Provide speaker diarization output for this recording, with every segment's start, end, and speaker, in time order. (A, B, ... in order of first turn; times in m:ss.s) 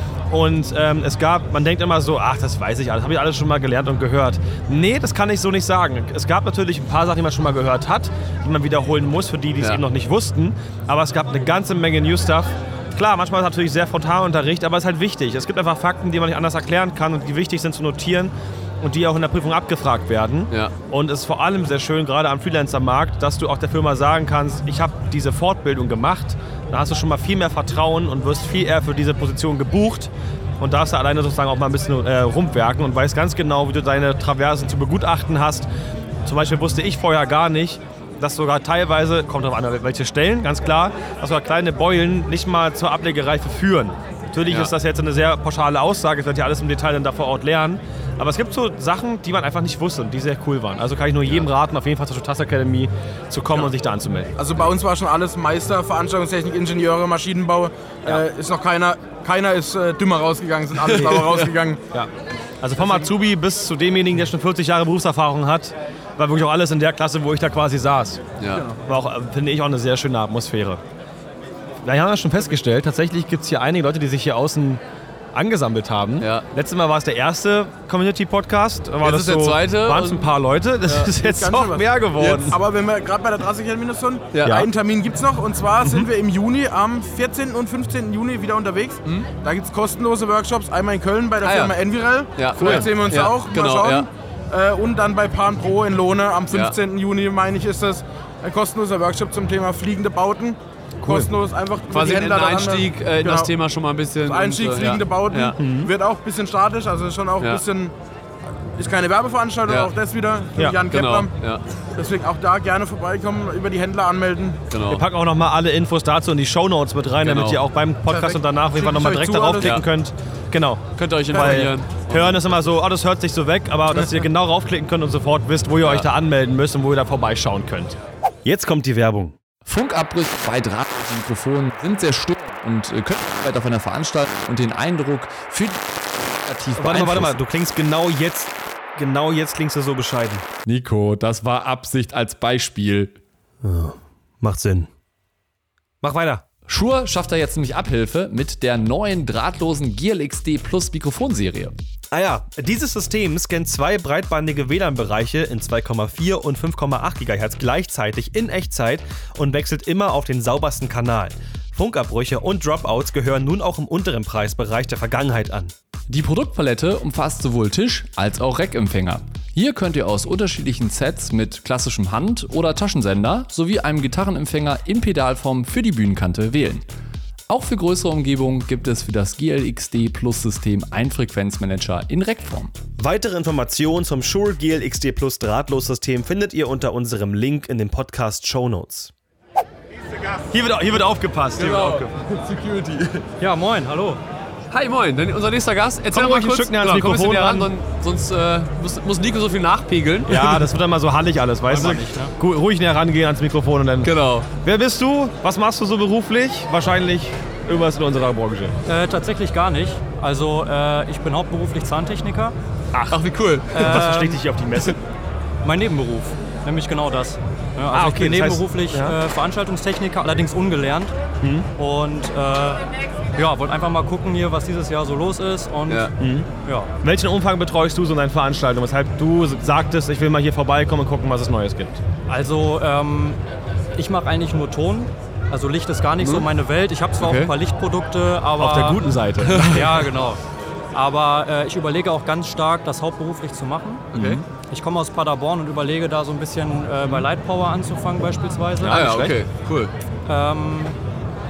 0:00.3-0:35.7 A
0:36.2-0:54.3 A
0:44.5-0:44.7 B
0:54.4-1:01.8 C
1:01.0-1:01.2 A
1:01.9-1:08.2 A
1:08.4-1:08.7 B
1:08.8-1:10.8 A
1:11.8-1:14.8 A
1:15.3-1:22.6 A
1:16.2-1:16.4 B
1:19.0-1:20.3 B
1:20.8-1:21.1 B
1:21.2-1:22.0 C
1:22.2-1:22.6 B
1:22.5-1:43.5 C
1:24.3-1:24.6 B
1:24.4-1:24.7 A
1:31.4-1:31.7 B
1:32.4-1:34.1 B
1:32.6-1:32.9 A
1:41.0-1:41.3 A
1:41.9-1:45.6 B
1:44.2-1:47.9 C
1:45.6-1:45.9 A
1:48.8-1:51.3 C
1:49.6-1:49.9 B
1:50.9-1:51.6 B
1:52.0-1:54.6 C
1:54.7-1:55.0 B
1:54.8-2:09.4 A
1:57.2-1:57.6 B
1:58.1-1:59.8 C
1:59.6-1:59.8 B
2:01.0-2:02.4 B
2:01.3-2:01.7 C
2:05.8-2:06.1 B
2:09.6-2:17.4 D
2:16.8-2:20.5 A
2:20.6-2:23.2 D
2:23.6-2:24.9 A
2:26.0-2:26.4 A
2:26.7-2:31.7 D
2:32.1-2:45.7 A
2:46.1-2:56.8 D
2:57.5-3:02.7 D
3:03.0-3:09.1 A
3:10.5-3:12.1 A
3:11.6-3:13.2 B
3:13.4-3:14.2 E
3:14.7-3:20.7 B
3:16.1-3:17.7 A
3:20.2-3:28.8 A
3:21.7-3:22.3 E
3:24.0-3:24.5 B
3:28.8-3:32.6 E
3:32.9-3:35.0 A
3:33.1-3:34.0 B
3:33.7-3:34.4 E
3:35.6-3:41.1 E
3:37.9-3:39.2 A
3:41.4-3:41.7 A
3:41.8-3:42.8 E
3:43.4-3:46.1 E
3:45.9-3:46.1 B
3:46.2-3:46.5 A
3:46.6-3:46.9 E
3:47.0-3:52.0 A
3:52.3-3:53.4 E
3:54.0-4:00.4 E
3:56.2-3:56.5 B
3:57.2-3:57.5 B
3:58.6-4:00.1 A
3:59.5-3:59.8 B
4:00.9-4:09.0 E
4:04.1-4:04.4 B
4:04.1-4:04.4 A
4:08.8-4:09.4 A
4:08.8-4:09.9 B
4:10.2-4:11.0 E